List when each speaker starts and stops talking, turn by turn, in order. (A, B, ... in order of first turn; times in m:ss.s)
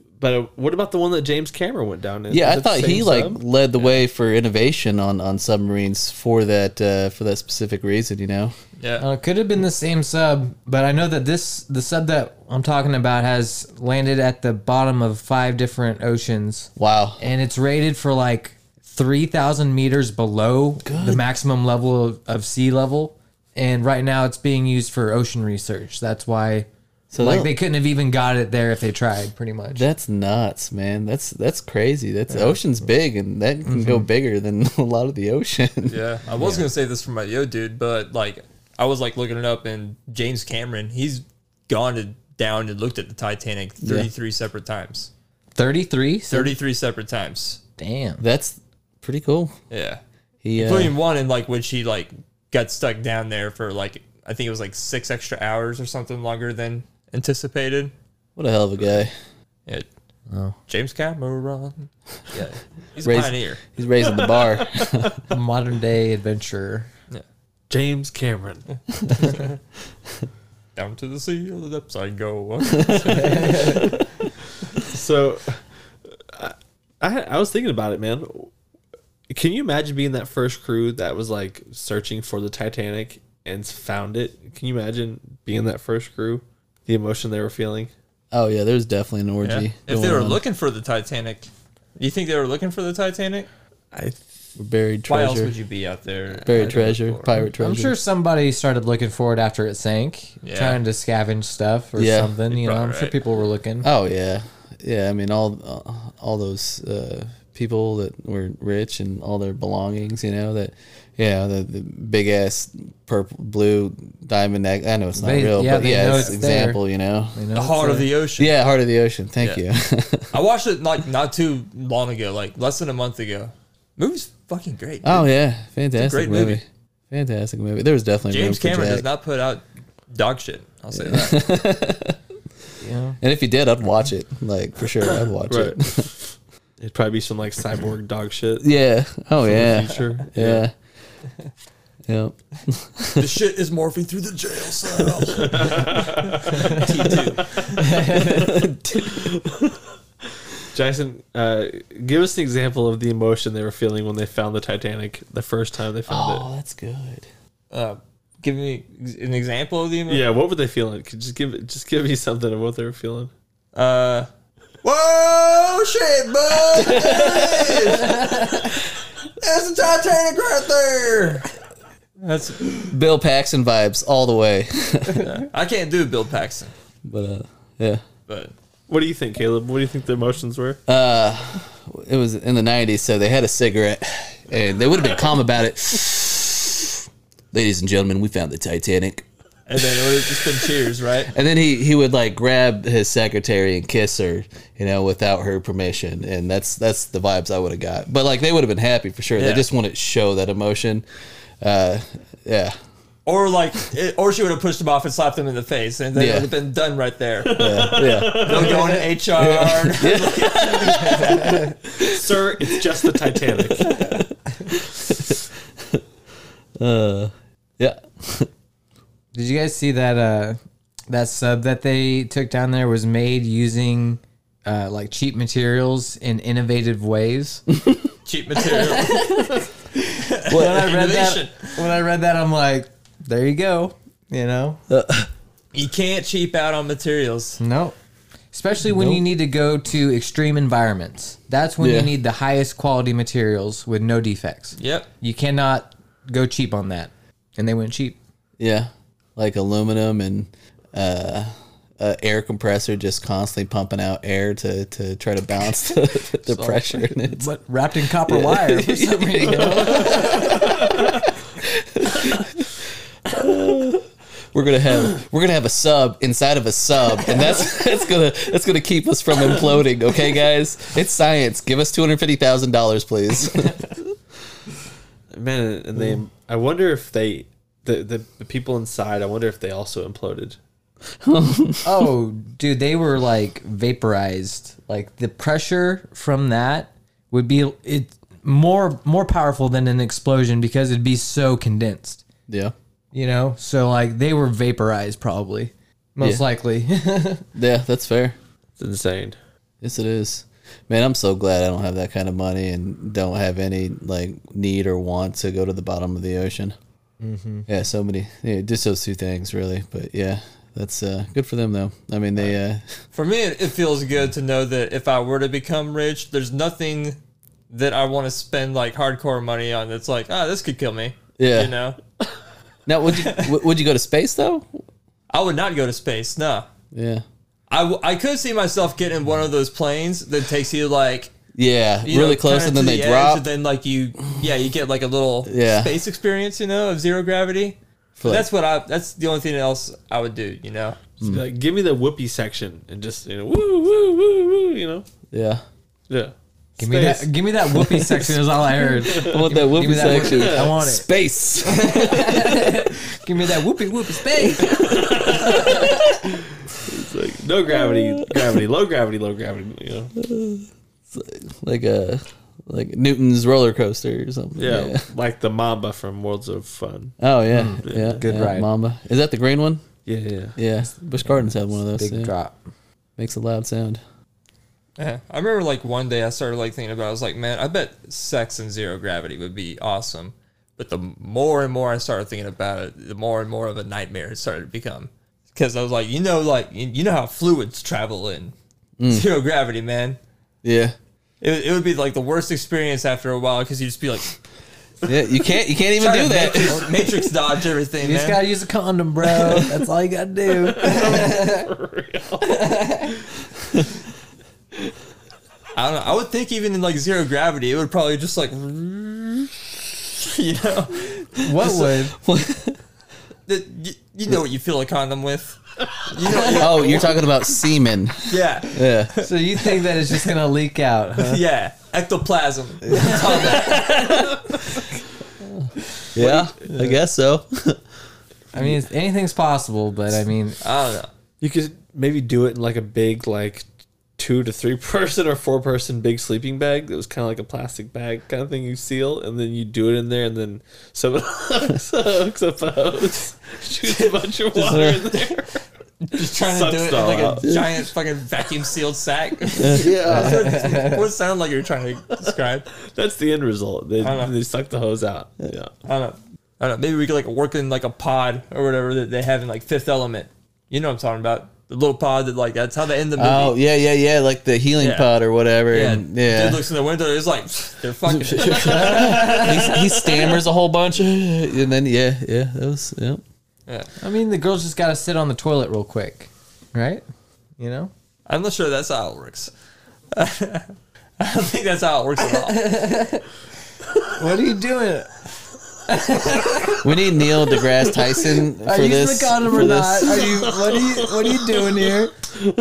0:00.2-0:03.4 A
0:02.3-0:08.5 B
0:08.8-0:09.0 C
0:09.0-0:26.7 D
0:16.8-0:17.2 B
0:20.8-0:21.2 B
0:27.1-0:27.5 B
0:27.2-0:29.8 D
0:29.8-0:36.0 B
0:33.7-0:34.1 D
0:35.9-0:45.1 C
0:43.8-0:44.1 B
0:45.6-0:46.5 D
0:46.3-0:47.6 C
0:47.8-0:48.2 D
0:48.2-0:49.5 B
0:49.7-0:50.0 C
0:50.4-0:51.0 B
0:50.6-0:57.9 C
0:58.4-0:59.1 B
1:00.3-1:00.6 D
1:00.7-1:03.6 C
1:03.0-1:05.2 B
1:05.3-1:06.9 D
1:07.7-1:08.7 A
1:10.8-1:13.9 C
1:12.8-1:13.3 B
1:13.0-1:14.0 D
1:14.8-1:15.6 A
1:16.3-1:18.5 A
1:19.3-1:27.9 A
1:28.3-1:30.4 B
1:29.4-1:33.5 C
1:34.6-1:35.5 B
1:35.1-1:37.3 C
1:36.4-1:38.0 B
1:37.6-1:43.9 D
1:40.4-1:40.8 C
1:42.0-1:42.4 B
1:42.5-1:43.2 C
1:43.8-1:57.5 B
1:55.2-1:56.8 D
1:56.1-1:56.4 C
1:57.4-1:58.1 D
1:57.5-1:58.5 C
1:58.4-2:00.4 B
2:00.3-2:05.3 C
2:05.0-2:09.0 B
2:06.0-2:06.6 C
2:08.3-2:11.5 C
2:10.9-2:12.2 B
2:12.8-2:13.2 D
2:13.2-2:16.1 B
2:15.5-2:18.7 A
2:18.6-2:20.7 B
2:19.4-2:20.6 A
2:22.1-2:23.3 B
2:23.2-2:27.9 C
2:25.4-2:27.2 A
2:27.8-2:28.6 D
2:28.1-2:29.8 B
2:30.7-2:36.4 A
2:36.1-2:37.3 B
2:37.7-2:40.3 C
2:40.1-2:43.3 A
2:43.8-2:44.3 C
2:44.8-2:48.8 C
2:46.9-2:47.9 B
2:49.4-2:51.5 C
2:52.2-2:52.9 C
2:52.9-2:55.3 B
2:55.1-2:56.7 C
2:57.0-2:58.0 B
2:58.3-2:58.5 C
2:58.9-3:00.8 A
3:00.9-3:09.2 B
3:09.7-3:11.3 C
3:11.3-3:21.1 B
3:19.4-3:19.7 C
3:21.6-3:22.8 B
3:23.3-3:31.4 C
3:26.2-3:26.5 B
3:27.4-3:29.0 A
3:27.5-3:32.2 B
3:30.9-3:31.8 D
3:32.0-3:33.9 A
3:33.8-3:36.0 B
3:36.8-3:38.5 B
3:39.3-3:47.6 D
3:48.3-3:49.4 C
3:48.7-3:49.7 D
3:50.1-3:51.7 C
3:50.4-3:54.8 D
3:50.5-3:50.8 B
3:54.9-3:55.3 B
3:55.7-3:57.6 C
3:57.6-3:58.0 D
3:58.5-4:08.2 D
3:58.9-3:59.2 B
4:01.8-4:02.1 B
4:04.8-4:05.1 C
4:08.6-4:17.5 B
4:16.5-4:16.8 C
4:17.2-4:21.0 D
4:18.3-4:20.7 B
4:21.6-4:22.7 B
4:23.2-4:34.1 B
4:35.3-4:40.6 A
4:41.2-4:41.9 B
4:41.8-4:52.2 D
4:52.5-4:52.7 B
4:53.1-4:57.4 D
4:57.6-4:58.4 B
4:58.8-4:59.4 A
4:59.8-5:06.8 B
5:07.2-5:07.7 D
5:07.7-5:13.0 B
5:13.1-5:17.2 C
5:17.7-5:22.0 C
5:21.4-5:21.7 B
5:22.9-5:24.8 B
5:25.3-5:26.7 C
5:26.9-5:27.2 B
5:27.7-5:31.3 C
5:31.6-5:33.4 B
5:32.0-5:41.0 C
5:35.5-5:36.0 B
5:38.2-5:38.5 B
5:41.2-5:45.1 A
5:45.3-5:45.6 B
5:46.1-5:47.3 A
5:46.8-5:51.1 D
5:47.8-5:48.3 B
5:49.0-5:52.9 B
5:49.0-5:50.7 A
5:51.6-5:56.1 D
5:54.8-5:56.0 A
5:56.7-6:00.1 A
5:57.7-5:58.6 B
6:00.2-6:05.1 B
6:04.6-6:07.2 A
6:07.2-6:09.8 B
6:07.5-6:08.7 D
6:07.8-6:08.3 A
6:10.1-6:10.6 A
6:10.6-6:12.3 B
6:11.9-6:12.6 D
6:13.2-6:14.0 B
6:15.0-6:28.5 C
6:29.0-6:29.3 B
6:29.1-6:30.2 C
6:30.6-6:31.0 B
6:31.4-6:34.4 C
6:35.0-6:36.9 B
6:36.0-6:38.4 C
6:38.0-6:41.6 D
6:40.5-6:43.3 A
6:42.4-6:43.1 D
6:45.8-6:51.9 C
6:51.4-6:52.2 D
6:52.1-6:52.8 B
6:53.5-6:57.3 C
6:56.2-6:56.6 D
6:56.5-6:59.1 B
6:58.3-7:00.3 C
6:59.2-7:01.4 D
7:01.2-7:04.5 C
7:02.9-7:03.6 D
7:03.5-7:04.6 B
7:05.4-7:07.8 B
7:08.5-7:10.6 D
7:10.6-7:11.1 C
7:11.4-7:13.6 A
7:14.2-7:25.6 A
7:23.9-7:25.2 C
7:24.6-7:25.1 B
7:26.0-7:32.7 C
7:26.2-7:27.4 A
7:27.4-7:27.8 B
7:29.6-7:30.4 B
7:29.8-7:30.3 A
7:30.0-7:31.1 D
7:32.8-7:35.7 A
7:34.0-7:34.4 C
7:35.8-7:43.6 C
7:43.2-7:46.6 B
7:44.8-7:45.1 C
7:45.7-7:50.3 C
7:48.1-7:53.2 B
7:48.6-7:49.7 D
7:54.0-7:57.0 D
7:57.6-7:57.9 D
7:58.3-7:59.5 C
8:00.1-8:02.7 C
8:02.2-8:03.2 D
8:04.1-8:05.1 D
8:05.9-8:06.8 D
8:06.8-8:10.5 B
8:08.6-8:12.1 D